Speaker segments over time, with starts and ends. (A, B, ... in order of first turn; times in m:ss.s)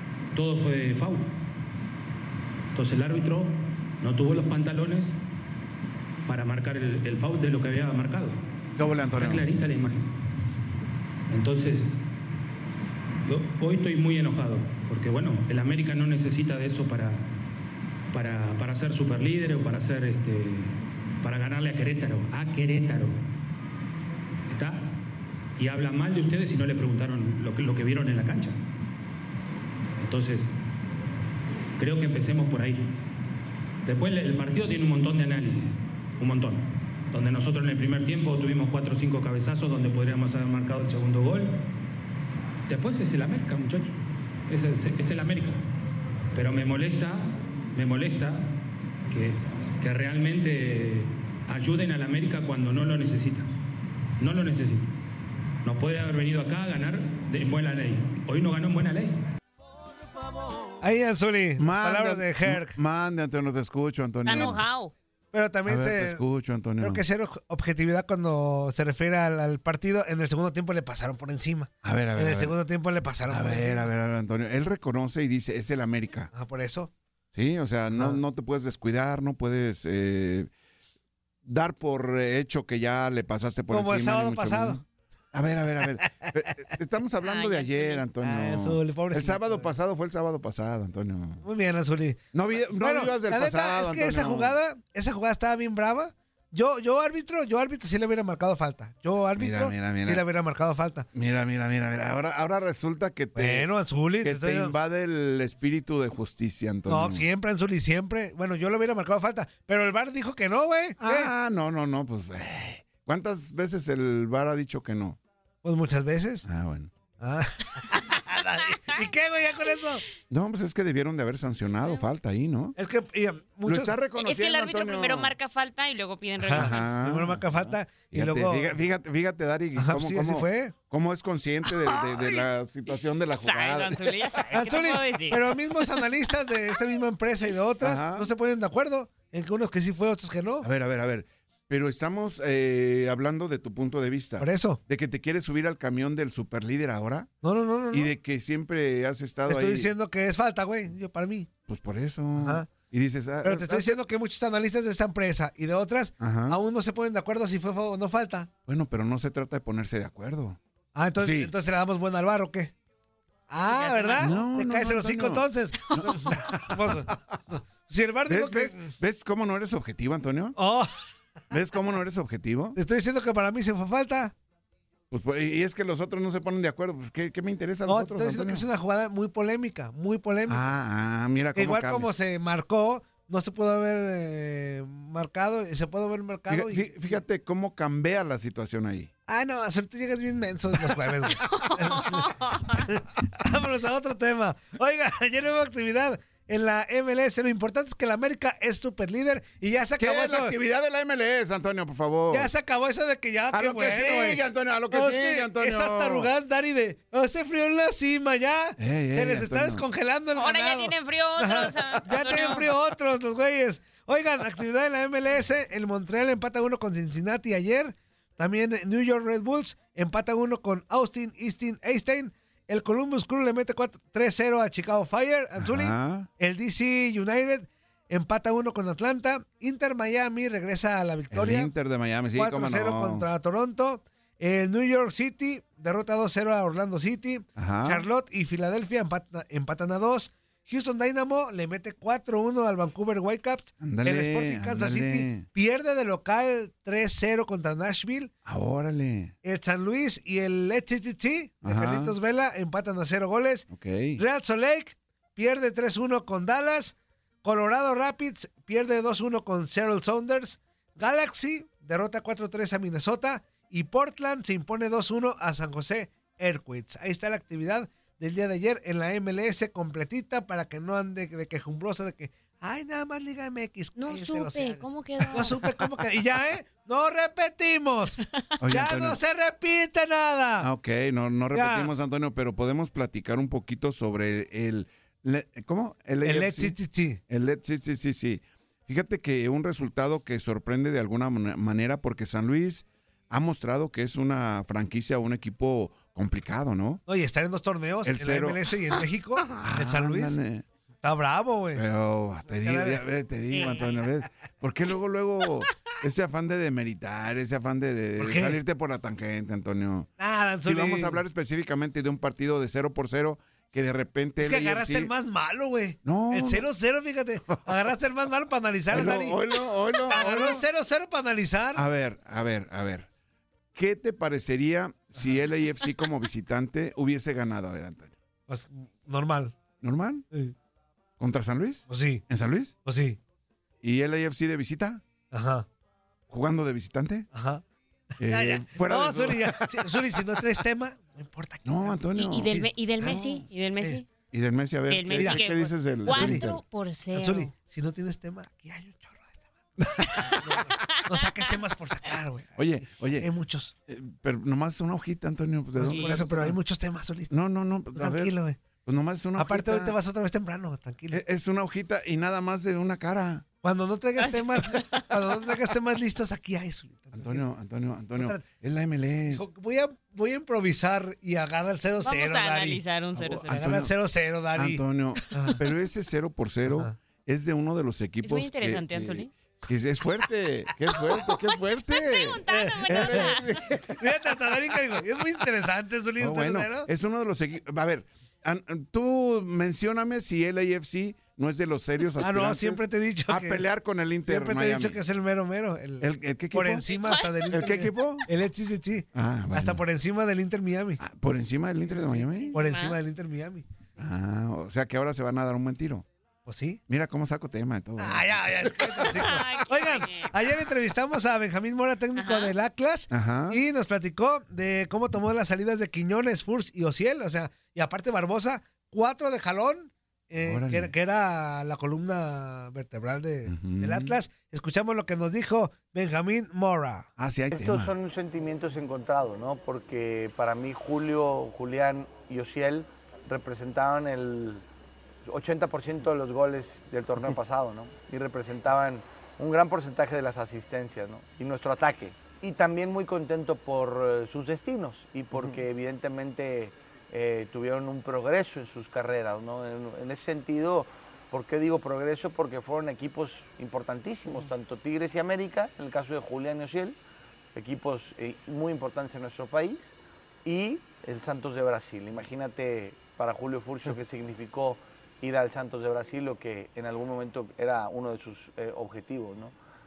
0:00.3-0:01.3 A
0:02.7-0:05.1 A
0:06.2-0:08.4 A
0:08.8-0:09.5 B
0:09.2-0:10.1 A
0:11.3-0:12.0 A
0:13.2-0:17.2 A
0:18.1-0:23.2 A
0:24.5-0:24.9 A
0:25.6-0:28.6 A
0:30.0-0:30.6 A
0:31.8-0:32.9 A
0:33.8-0:41.6 A
0:42.7-0:43.9 A
0:44.5-0:45.6 A
0:46.3-0:48.5 A
0:49.1-0:53.5 A
0:54.2-0:54.9 A
0:55.6-0:59.2 A
1:00.8-1:02.8 C
1:01.6-1:04.6 B
1:04.2-1:04.9 D
1:05.3-1:06.2 C
1:05.6-1:07.0 B
1:06.8-1:13.9 C
1:11.8-1:12.6 B
1:13.3-1:16.3 B
1:16.3-1:16.9 C
1:17.3-1:20.5 B
1:17.9-1:18.2 C
1:21.4-1:31.4 B
1:23.7-1:24.8 C
1:27.2-1:28.0 D
1:28.2-1:29.7 C
1:31.4-1:32.2 C
1:32.3-1:34.6 B
1:32.8-1:41.1 C
1:39.4-1:40.2 B
1:41.1-1:43.7 B
1:43.4-1:44.7 C
1:44.2-1:47.2 B
1:46.9-1:51.3 C
1:51.0-1:55.2 B
1:55.6-1:56.4 C
1:56.4-1:56.9 B
1:57.2-2:00.0 C
2:00.3-2:02.8 B
2:02.8-2:04.0 C
2:03.6-2:05.3 B
2:04.2-2:06.9 D
2:06.5-2:08.7 C
2:06.5-2:14.2 B
2:09.8-2:10.7 C
2:11.6-2:12.5 D
2:13.3-2:16.1 D
2:14.5-2:20.7 C
2:17.8-2:18.3 B
2:20.6-2:27.3 B
2:24.4-2:24.8 C
2:27.4-2:28.1 C
2:27.9-2:29.9 B
2:29.5-2:31.5 C
2:31.7-2:34.0 B
2:32.4-2:32.7 C
2:33.4-2:38.5 C
2:36.2-2:36.6 B
2:38.7-2:40.6 B
2:40.9-2:42.7 C
2:41.2-2:41.5 B
2:43.5-2:48.9 C
2:43.7-2:44.3 D
2:44.2-2:47.4 B
2:48.3-2:50.6 B
2:50.6-2:50.9 C
2:51.5-2:52.8 B
2:52.7-2:54.3 C
2:55.1-2:58.6 B
2:57.8-3:00.7 C
3:00.5-3:02.1 B
3:01.5-3:07.2 C
3:06.5-3:09.1 B
3:09.3-3:20.6 C
3:11.5-3:12.8 D
3:20.0-3:22.5 B
3:22.3-3:51.7 C
3:23.5-3:26.3 B
3:28.8-3:29.8 B
3:30.4-3:32.7 D
3:45.6-3:46.3 B
3:51.3-3:53.2 B
3:52.3-4:08.3 C
3:57.6-3:58.0 B
4:03.8-4:05.5 B
4:08.4-4:09.3 B
4:09.4-4:40.7 C
4:11.6-4:12.1 B
4:13.7-4:14.2 B
4:34.0-4:35.8 D
4:38.6-4:39.2 B
4:40.6-4:46.8 B
4:41.5-4:41.9 C
4:46.2-4:47.2 C
4:47.3-4:57.0 B
4:57.1-5:00.4 C
4:58.0-4:58.6 B
4:59.6-5:00.6 B
5:01.0-5:01.8 C
5:01.7-5:10.1 B
5:02.6-5:03.0 C
5:03.5-5:03.9 D
5:08.2-5:08.6 C
5:10.2-5:11.2 C
5:10.6-5:15.1 B
5:14.4-5:19.4 C
5:16.0-5:16.7 B
5:18.9-5:20.6 B
5:20.1-5:21.8 C
5:21.7-5:23.1 B
5:23.7-5:28.1 B
5:28.5-5:29.5 C
5:29.8-5:30.2 B
5:31.2-5:32.8 B
5:31.9-5:32.2 C
5:32.8-5:33.2 C
5:33.8-5:35.0 B
5:35.3-5:35.6 C
5:36.3-5:37.3 B
5:37.3-5:37.6 C
5:38.2-5:40.4 B
5:38.2-5:43.3 C
5:41.6-5:43.1 B
5:42.2-5:44.0 D
5:44.3-5:46.6 B
5:44.9-5:47.5 D
5:45.1-5:45.4 C
5:46.0-5:46.5 C
5:47.1-5:53.7 C
5:49.8-5:50.1 B
5:50.2-5:50.9 D
5:52.6-5:53.3 B
5:53.9-5:56.6 B
5:55.8-5:57.3 C
5:57.3-5:59.9 B
5:57.9-5:58.6 C
5:59.4-6:01.2 C
6:01.1-6:03.4 B
6:03.6-6:07.4 C
6:04.2-6:05.0 D
6:07.1-6:09.5 B
6:08.2-6:08.4 C
6:09.3-6:12.8 C
6:12.0-6:13.6 D
6:13.1-6:13.9 B
6:13.5-6:14.8 C
6:14.5-6:23.8 B
6:15.3-6:15.6 C
6:16.7-6:16.9 C
6:18.2-6:19.3 D
6:21.0-6:23.7 D
6:22.5-6:26.9 C
6:26.2-6:35.0 B
6:32.2-6:33.6 C
6:34.2-6:41.0 C
6:36.0-6:36.8 B
6:36.9-6:37.5 D
6:37.5-6:38.3 B
6:39.1-6:39.8 B
6:41.0-6:42.6 B
6:42.3-6:43.0 D
6:42.5-6:43.6 C
6:44.0-6:46.0 B
6:46.4-6:46.8 C
6:46.9-6:49.3 B
6:48.0-7:07.1 C
6:49.1-6:50.6 D
6:52.1-6:52.5 D
6:53.1-6:53.6 B
7:00.4-7:00.9 B
7:03.5-7:04.2 B
7:07.2-7:07.9 B
7:07.5-7:14.6 E
7:15.2-7:37.0 E
7:37.5-7:49.5 E